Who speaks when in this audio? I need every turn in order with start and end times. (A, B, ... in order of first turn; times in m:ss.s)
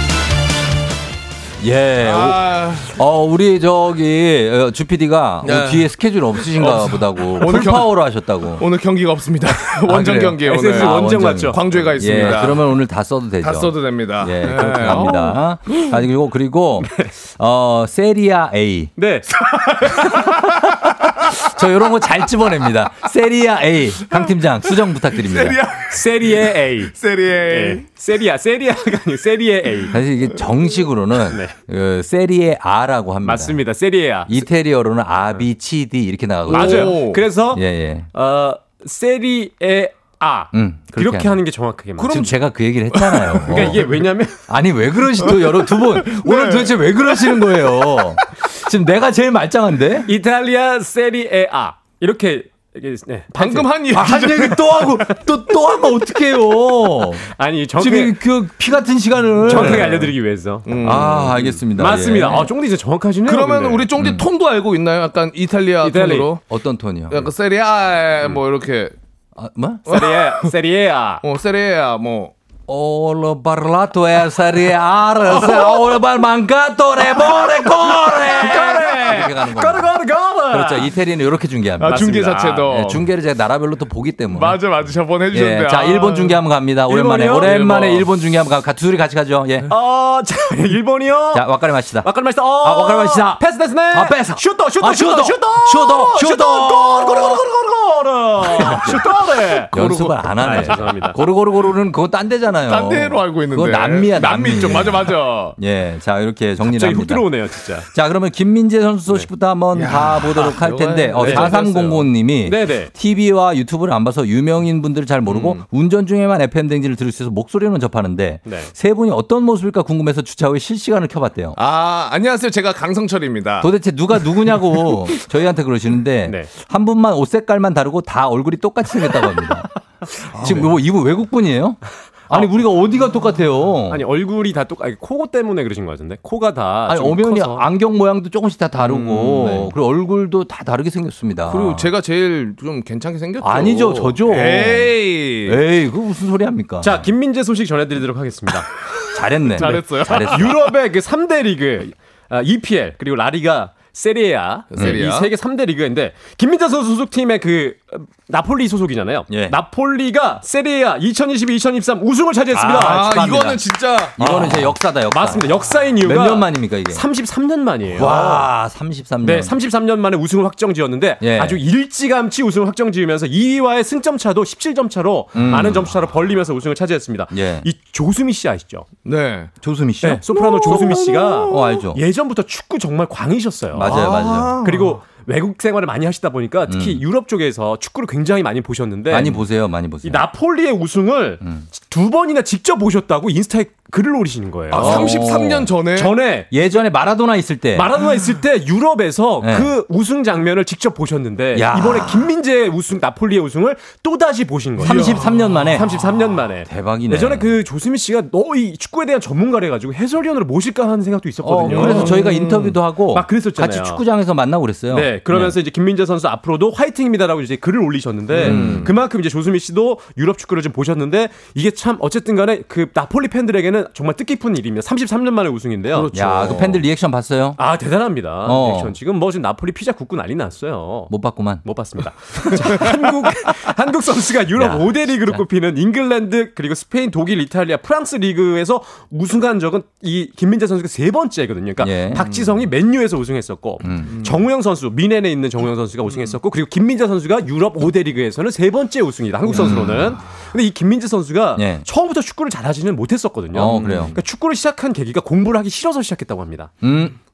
0:01.6-0:08.6 A
0:02.0-0:02.9 B
0:05.4-0:08.0 B
0:08.6-0:12.8 B
0:09.9-0:18.9 A
0:10.4-0:12.5 C
0:13.4-0:15.4 B
0:16.8-0:17.1 C
0:19.0-0:19.3 C
0:19.3-0:20.1 B
0:20.0-0:25.6 A
0:25.2-0:27.9 B
0:25.9-0:29.9 C
0:29.9-0:33.6 A
0:33.2-0:34.3 C
0:34.3-0:38.1 A
0:36.5-0:42.3 C
0:36.5-0:37.2 B
0:40.5-0:41.4 A
0:42.0-0:42.3 B
0:42.0-0:43.9 A
0:42.9-0:43.9 B
0:43.5-0:44.4 C
0:44.5-0:50.1 A
0:45.2-0:47.5 B
0:50.1-0:53.8 C
0:53.3-0:54.8 B
0:53.9-1:00.1 A
0:57.3-0:58.2 C
0:59.4-1:03.9 C
0:59.5-1:00.1 B
1:00.6-1:01.5 B
1:00.8-1:02.5 A
1:03.3-1:06.4 B
1:04.0-1:04.3 A
1:05.8-1:06.4 C
1:06.5-1:07.3 A
1:07.1-1:08.9 B
1:09.4-1:10.0 A
1:09.9-1:10.5 B
1:09.9-1:11.2 C
1:11.2-1:12.3 B
1:12.7-1:20.0 A
1:15.3-1:16.0 B
1:17.2-1:19.0 B
1:18.3-1:20.9 C
1:20.5-1:24.6 A
1:21.8-1:23.1 B
1:21.8-1:22.9 C
1:24.3-1:26.4 B
1:25.3-1:29.7 A
1:26.9-1:28.0 C
1:27.0-1:28.1 B
1:29.7-1:31.5 C
1:31.3-1:37.4 A
1:32.0-1:41.2 C
1:36.9-1:37.4 B
1:38.4-1:39.0 A
1:38.8-1:41.1 B
1:39.7-2:01.6 A
1:42.7-1:45.6 B
1:46.6-1:47.9 C
1:49.7-1:52.1 B
1:51.2-1:51.6 C
1:52.4-1:52.9 C
1:55.3-1:55.6 B
1:58.4-1:58.7 C
2:01.6-2:03.7 B
2:03.6-2:09.7 A
2:04.3-2:04.5 B
2:10.3-2:14.0 A
2:10.3-2:10.7 B
2:10.4-2:10.7 C
2:13.9-2:17.7 C
2:16.9-2:21.9 A
2:18.8-2:19.7 C
2:19.3-2:19.7 B
2:21.5-2:25.6 B
2:23.4-2:27.1 A
2:26.8-2:28.7 C
2:29.1-2:30.6 A
2:29.5-2:43.2 C
2:29.6-2:30.6 B
2:34.7-2:35.3 B
2:34.8-2:35.0 A
2:39.3-2:39.6 A
2:42.5-2:45.5 A
2:42.7-2:44.7 B
2:44.2-2:48.4 C
2:46.0-2:47.0 A
2:47.9-2:49.5 A
2:49.2-2:58.9 C
2:51.2-2:51.6 A
2:55.3-2:56.0 A
2:57.3-2:57.7 A
2:59.0-2:59.5 B
2:59.6-3:02.0 A
3:00.0-3:09.4 C
3:00.3-3:01.8 B
3:03.7-3:04.6 A
3:03.8-3:05.0 B
3:06.7-3:07.0 A
3:09.1-3:10.3 A
3:10.0-3:15.3 C
3:11.4-3:11.7 A
3:14.7-3:16.2 B
3:14.7-3:15.7 A
3:15.9-3:16.5 C
3:16.5-3:17.9 A
3:17.8-3:32.4 C
3:19.4-3:19.7 A
3:21.5-3:22.3 A
3:24.8-3:26.0 B
3:24.8-3:25.9 A
3:26.6-3:27.5 A
3:31.4-3:35.6 A
3:31.7-3:32.8 B
3:33.1-3:34.0 C
3:34.9-3:46.8 C
3:38.3-3:38.9 B
3:38.4-3:38.9 A
3:45.9-3:47.6 A
3:47.6-3:51.1 C
3:48.4-3:48.9 A
3:51.1-3:51.7 A
3:51.6-4:16.7 C
3:52.4-3:52.9 A
3:54.6-3:55.4 A
4:01.8-4:02.4 A
4:02.3-4:02.6 B
4:03.8-4:04.3 A
4:04.0-4:04.4 B
4:09.5-4:10.1 A
4:11.6-4:11.9 A
4:13.5-4:14.2 A
4:16.8-4:17.2 A